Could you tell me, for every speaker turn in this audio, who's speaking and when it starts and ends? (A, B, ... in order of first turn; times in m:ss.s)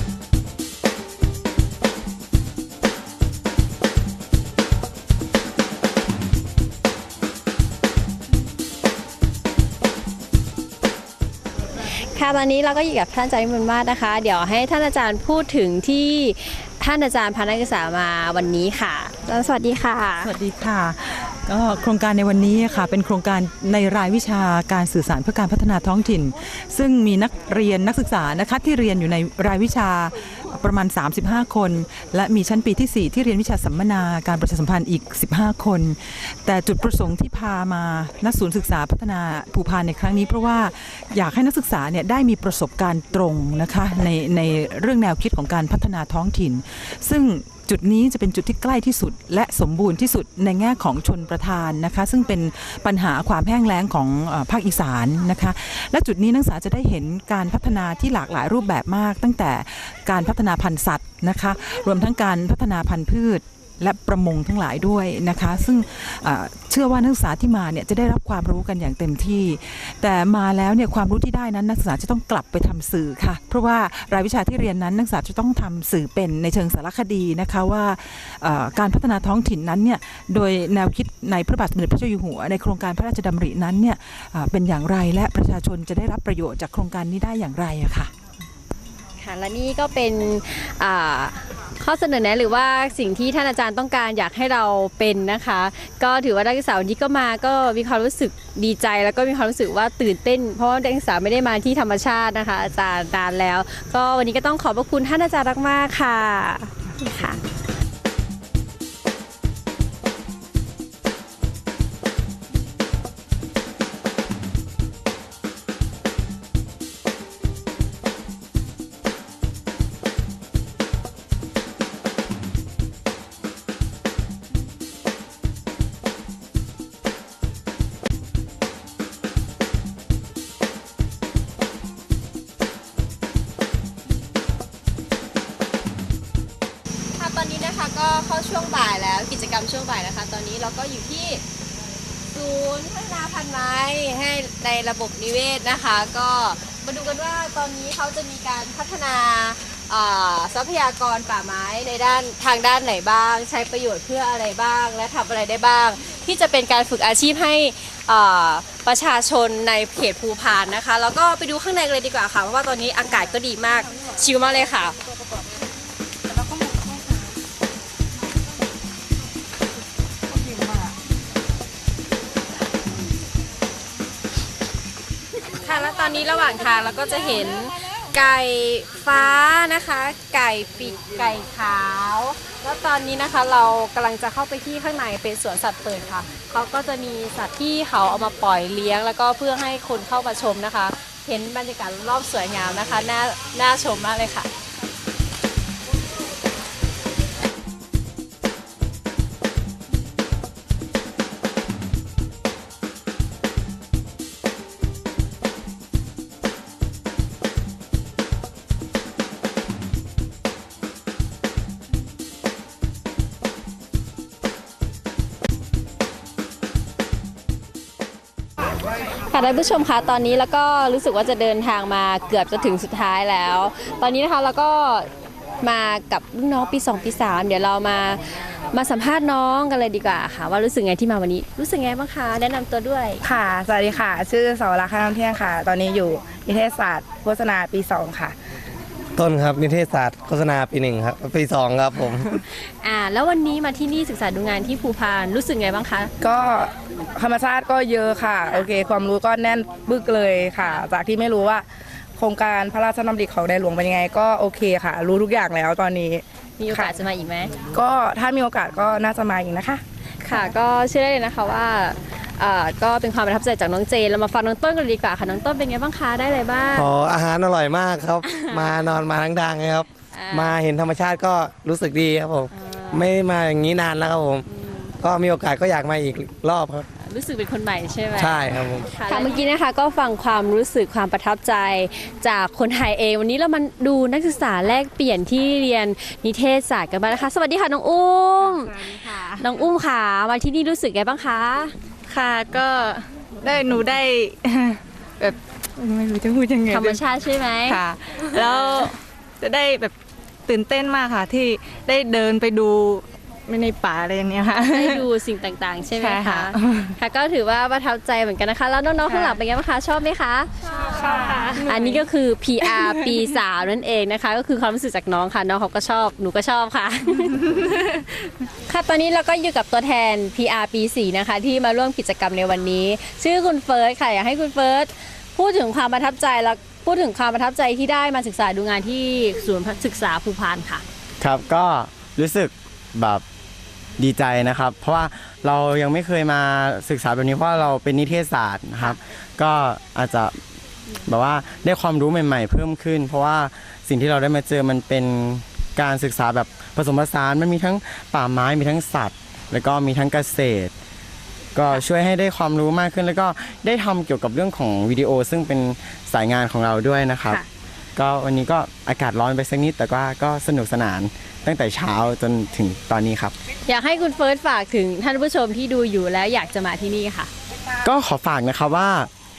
0:11.8-0:20.3 A
0:20.2-1:28.1 B
1:29.2-1:47.4 A
2:17.2-2:21.4 A
2:22.3-2:45.0 A
2:55.6-3:14.5 A
3:39.2-3:45.1 A
3:45.6-3:53.2 A
3:53.2-3:58.3 C
3:59.2-4:02.3 D
4:02.5-4:06.1 A
4:06.2-4:11.6 C
4:12.2-4:16.9 C
4:16.6-4:17.5 A
4:17.7-4:19.8 C
4:20.2-4:26.9 A
4:26.7-4:34.4 D
4:28.2-4:28.6 A
4:30.1-4:30.6 A
4:32.5-4:33.1 A
4:34.4-4:34.9 A
4:35.0-4:36.8 D
4:37.0-4:51.7 A
4:38.2-4:38.9 D
4:39.0-4:39.4 E
4:48.7-4:49.4 E
4:52.1-4:57.0 E
4:56.7-4:58.9 A
4:57.7-4:59.9 E
5:00.5-5:05.0 E
5:04.7-5:17.7 A
5:06.0-5:06.9 E
5:09.1-5:09.4 E
5:10.8-5:12.0 E
5:12.6-5:13.3 E
5:17.5-5:18.0 E
5:18.7-5:30.8 A
5:31.2-5:33.2 F
5:34.0-5:40.4 F
5:41.1-5:50.7 F
5:51.5-5:57.4 F
5:58.0-6:03.3 F
6:03.7-6:07.3 A
6:07.8-6:09.1 F